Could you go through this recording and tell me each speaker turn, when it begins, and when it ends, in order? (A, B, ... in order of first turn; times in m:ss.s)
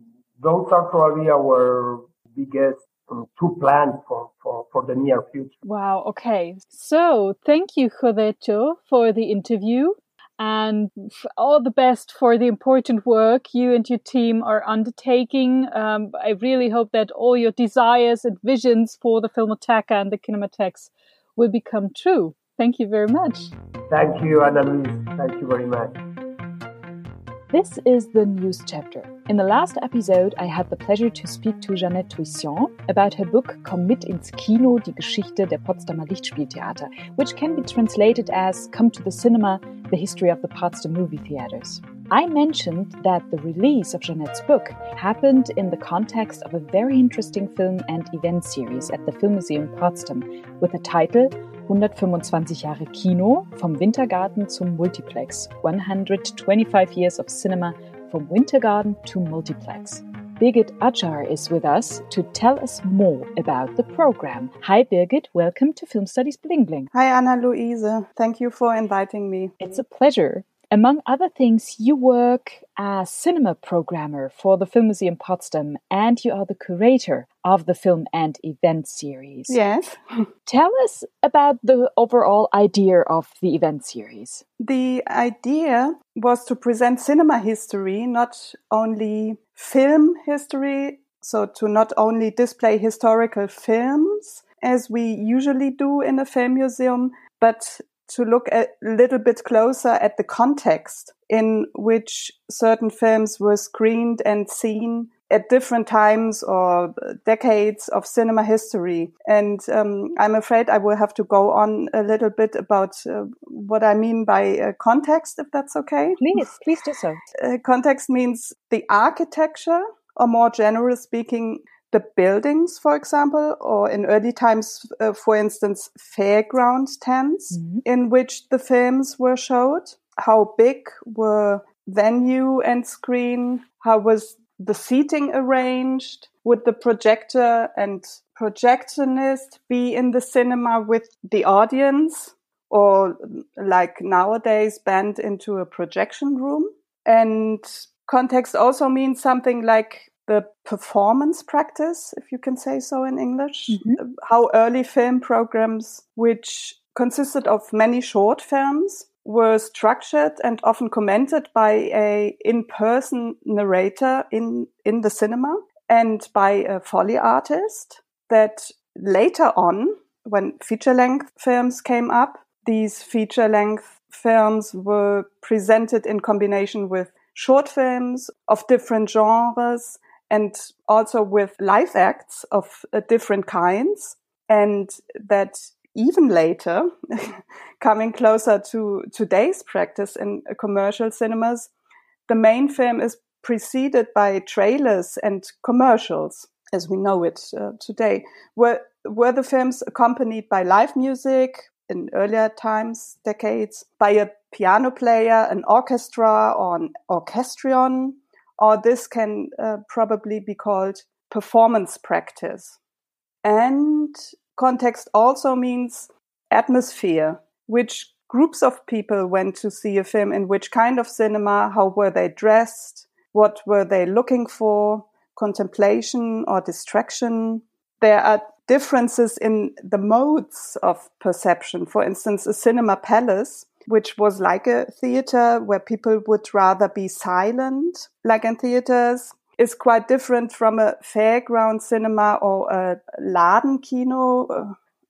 0:00.4-0:05.5 A
0:05.6-0:23.5 B
0:23.9-0:26.0 A
0:27.5-1:06.9 B
1:06.9-1:09.6 C
1:09.6-1:19.6 B
1:19.5-1:20.3 C
1:20.5-1:24.4 B
1:24.6-1:56.5 C
1:56.2-1:57.2 B
1:57.4-3:11.7 C
2:07.5-2:07.8 B
2:33.7-2:34.0 B
3:12.3-3:32.8 C
3:33.4-4:04.8 C